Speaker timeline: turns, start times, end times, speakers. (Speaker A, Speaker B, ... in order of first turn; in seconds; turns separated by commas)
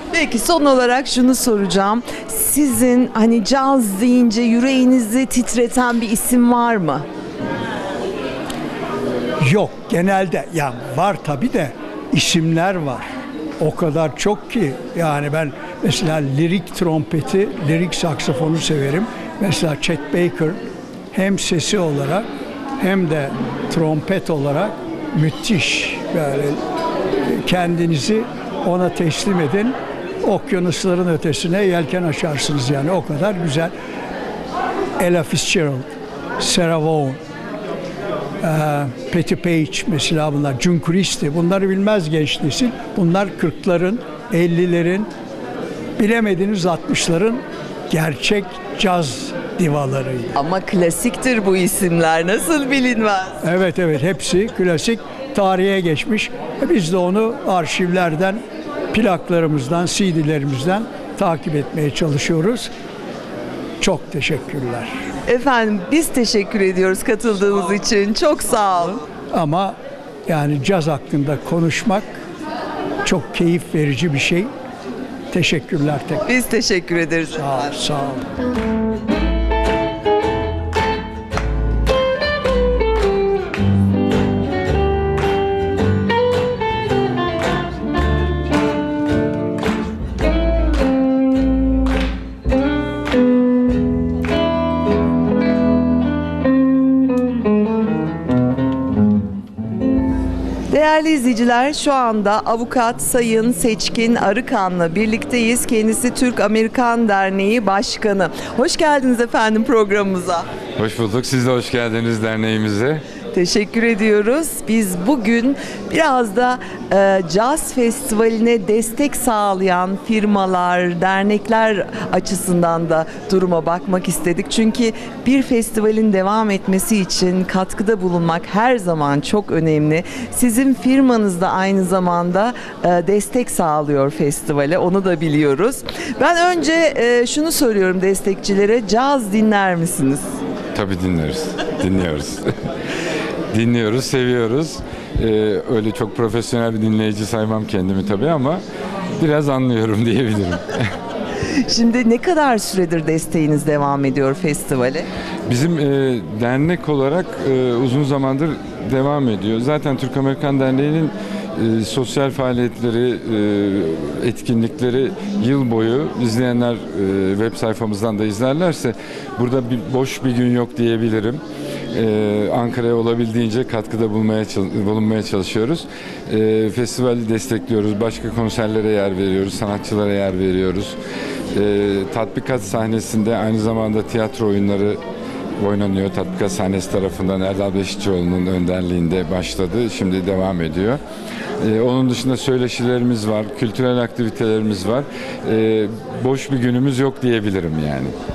Speaker A: 0.1-7.1, Speaker B: 9.4-13.1, Speaker B: 13.6-20.6, Speaker B: 21.1-22.3, Speaker B: 22.8-26.6, Speaker B: 27.2-33.7, Speaker B: 35.0-35.9, Speaker B: 36.4-37.2, Speaker B: 38.4-45.1, Speaker B: 46.0-50.3, Speaker A: 50.4-53.4, Speaker B: 53.4-62.7, Speaker B: 63.8-65.0, Speaker A: 65.3-69.0, Speaker B: 69.3-72.1, Speaker B: 73.0-74.5, Speaker B: 75.3-76.2, Speaker A: 76.2-77.7, Speaker B: 77.4-78.2, Speaker A: 100.7-110.5, Speaker C: 110.8-113.0, Speaker A: 113.3-140.3, Speaker C: 140.7-142.5, Speaker C: 143.5-148.6, Speaker C: 149.2-150.9, Speaker A: 151.4-155.1, Speaker C: 155.5-180.9, Speaker C: 181.5-185.0, Speaker C: 185.6-191.0, Speaker C: 191.6-198.1